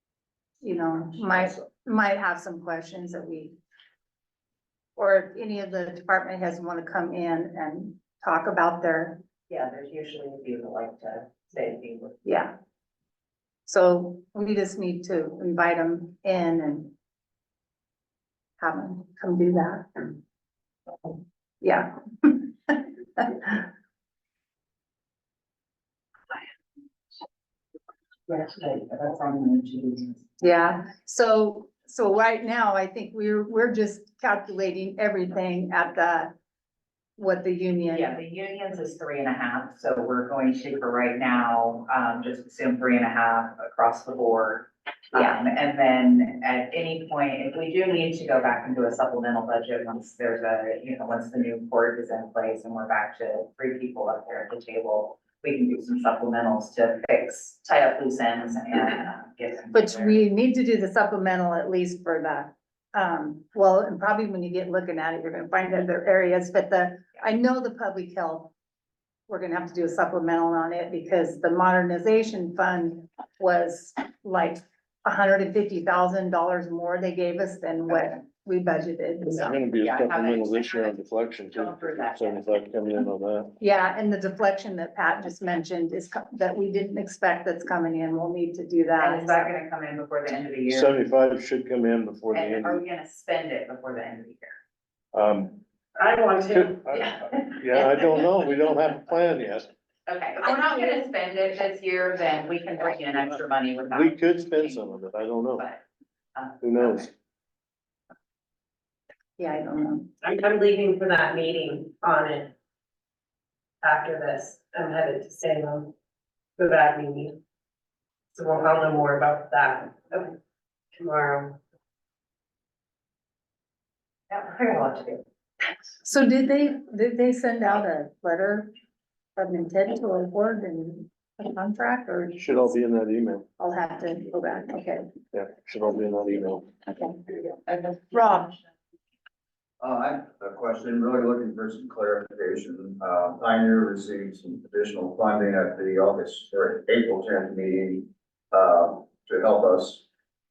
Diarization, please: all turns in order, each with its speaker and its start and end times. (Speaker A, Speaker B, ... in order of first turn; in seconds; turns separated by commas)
Speaker A: 0.6-3.6, Speaker A: 5.0-9.2, Speaker B: 9.5-12.3, Speaker A: 12.2-12.5, Speaker A: 13.7-16.9, Speaker A: 18.6-20.1, Speaker A: 21.6-23.6, Speaker B: 28.3-30.2, Speaker A: 30.4-36.3, Speaker A: 37.2-38.1, Speaker B: 37.9-60.2, Speaker A: 59.7-68.5, Speaker A: 69.3-79.6, Speaker C: 79.2-83.5, Speaker B: 79.8-82.5, Speaker A: 83.6-89.3, Speaker B: 89.0-90.9, Speaker C: 90.7-92.8, Speaker B: 92.3-94.6, Speaker C: 95.1-95.6, Speaker D: 95.9-96.8, Speaker C: 96.4-99.7, Speaker B: 100.1-105.8, Speaker C: 103.9-105.7, Speaker B: 106.3-107.1, Speaker C: 106.6-107.1, Speaker A: 109.4-110.1, Speaker D: 110.2-112.5, Speaker D: 113.8-115.9, Speaker D: 116.6-117.4, Speaker D: 118.3-120.3, Speaker D: 121.0-121.6, Speaker B: 124.3-125.2, Speaker A: 126.0-128.7, Speaker A: 129.3-132.4, Speaker C: 132.4-133.4, Speaker A: 133.6-135.1, Speaker C: 135.3-136.7, Speaker A: 136.9-137.2, Speaker B: 137.7-138.5, Speaker A: 138.1-138.5, Speaker E: 139.8-150.0